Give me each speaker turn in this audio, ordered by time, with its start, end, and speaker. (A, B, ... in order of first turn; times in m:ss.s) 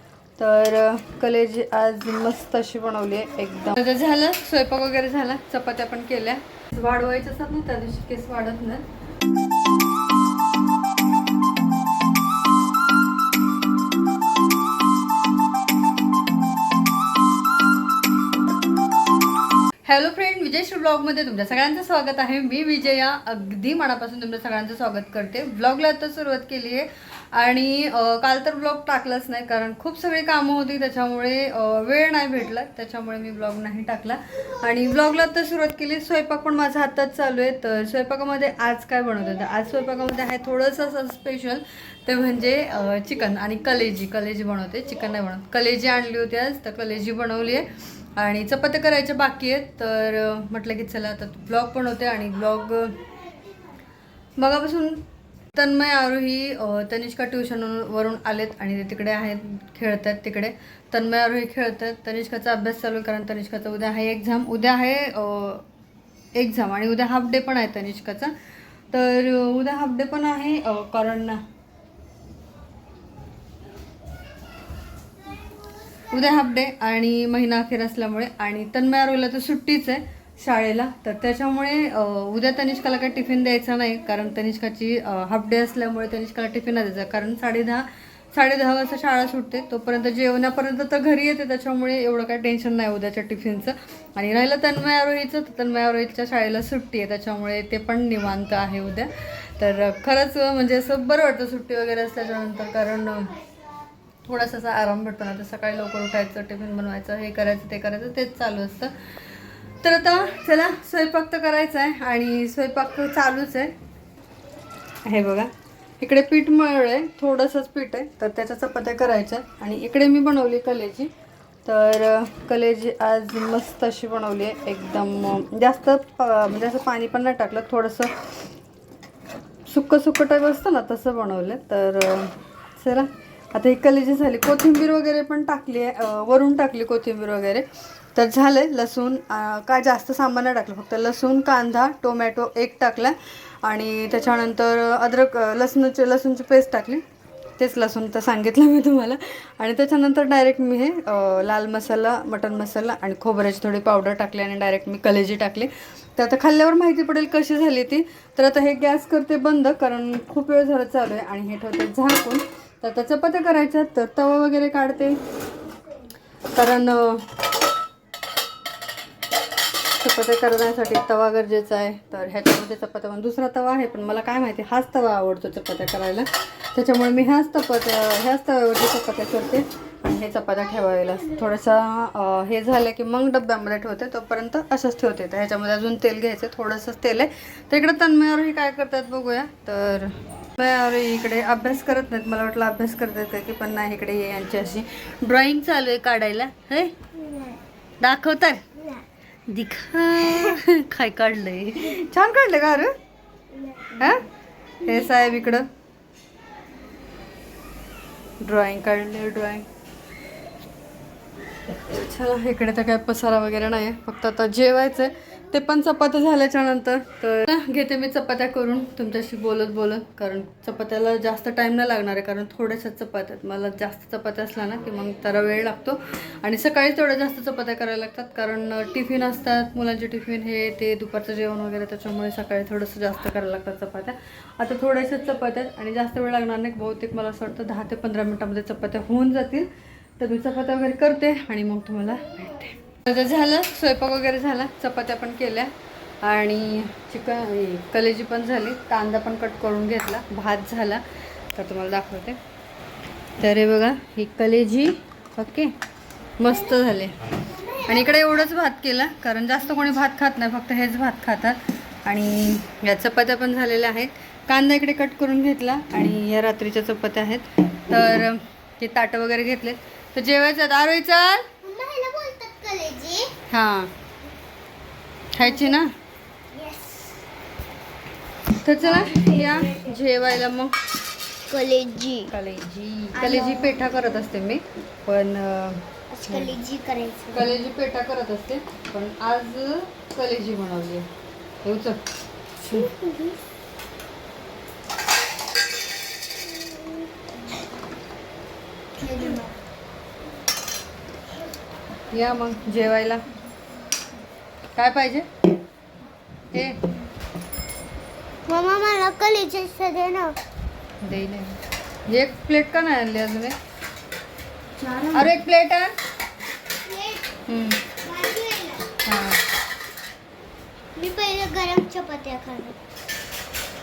0:00.4-0:08.8 A
0:19.8-0:53.1 A
0:54.4-1:05.6 A
1:06.4-1:08.4 A
1:08.9-1:11.4 A
1:16.1-1:43.4 A
1:44.2-1:53.8 A
1:55.0-2:01.1 A
2:01.6-2:08.4 A
2:09.7-2:27.0 A
2:27.6-2:45.2 A
2:46.5-2:47.3 A
2:49.9-3:17.0 A
3:17.3-3:17.6 B
3:18.0-3:18.9 A
3:19.5-3:22.9 A
3:23.9-3:24.3 A
3:24.8-3:25.7 A
3:28.4-3:29.7 A
3:31.7-4:12.4 A
4:13.4-4:15.8 A
4:16.4-4:31.5 A
4:31.6-4:33.4 B
4:33.5-4:33.9 A
4:35.3-4:35.9 A
4:36.5-4:37.2 B
4:38.6-4:40.8 A
4:39.1-4:39.7 B
4:41.4-4:42.3 B
4:42.3-4:46.6 A
4:43.2-4:43.7 B
4:46.1-4:47.5 B
4:47.3-4:51.1 A
4:51.6-4:52.0 A
4:52.6-4:52.9 A
4:52.7-4:53.4 B
4:56.6-4:57.1 B
4:59.0-4:59.6 B
5:02.1-5:03.2 A
5:04.8-5:05.3 A
5:06.5-5:06.9 A
5:08.5-5:10.4 B
5:11.0-5:13.6 A
5:14.8-5:15.4 B
5:15.1-5:16.0 A
5:16.8-5:17.4 B
5:17.5-5:17.9 A
5:17.9-5:19.0 B
5:19.0-5:19.4 A
5:21.0-5:22.8 B